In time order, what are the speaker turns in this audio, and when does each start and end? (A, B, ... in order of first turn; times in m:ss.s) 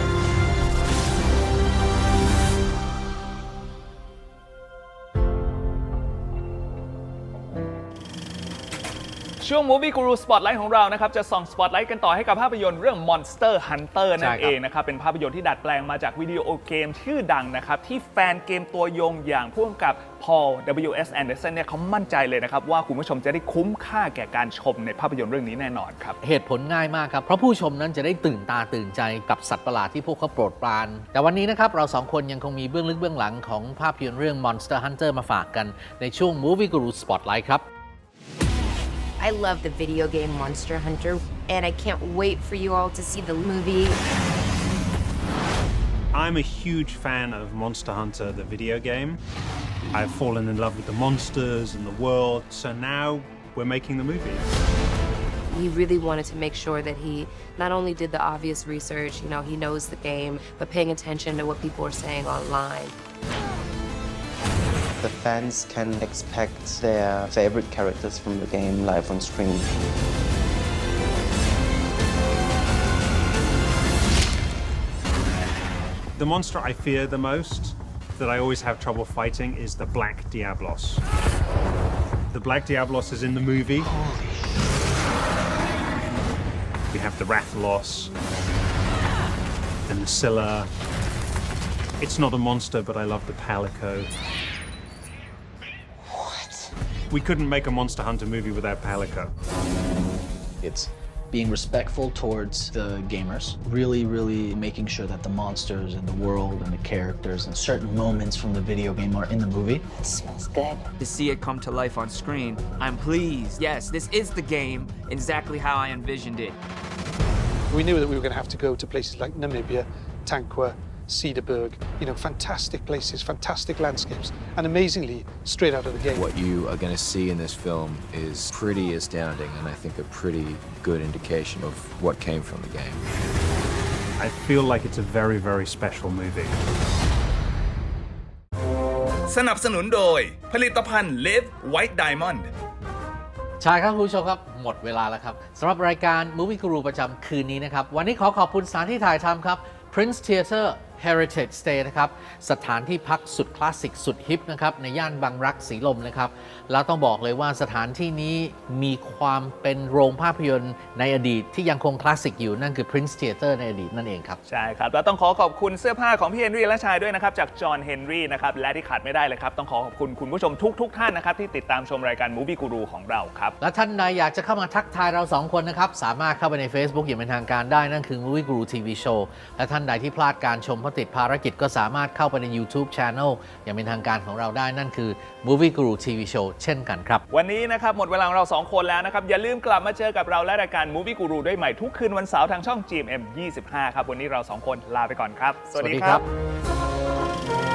0:09.4-0:26.2 A
0:14.2-0:14.5 B
0:26.2-0:37.6 B
0:39.2-0:44.0 C
0:46.1-0:49.2 D
0:49.9-0:54.5 D
0:55.5-1:03.0 C
1:05.0-1:09.7 E
1:16.2-1:21.0 D
1:22.3-1:23.9 D
1:26.9-1:28.1 D
1:29.9-1:30.7 D
1:32.0-1:34.1 D
1:37.1-1:39.3 D
1:40.6-1:49.9 F
1:51.0-1:56.6 G
1:57.7-2:06.2 H
2:06.0-2:13.1 I
2:14.2-2:16.6 D
2:19.3-2:22.5 A
2:23.6-2:44.4 B
2:44.5-2:53.6 A
2:53.6-3:07.2 B
3:07.3-3:16.2 A
3:15.7-3:16.2 B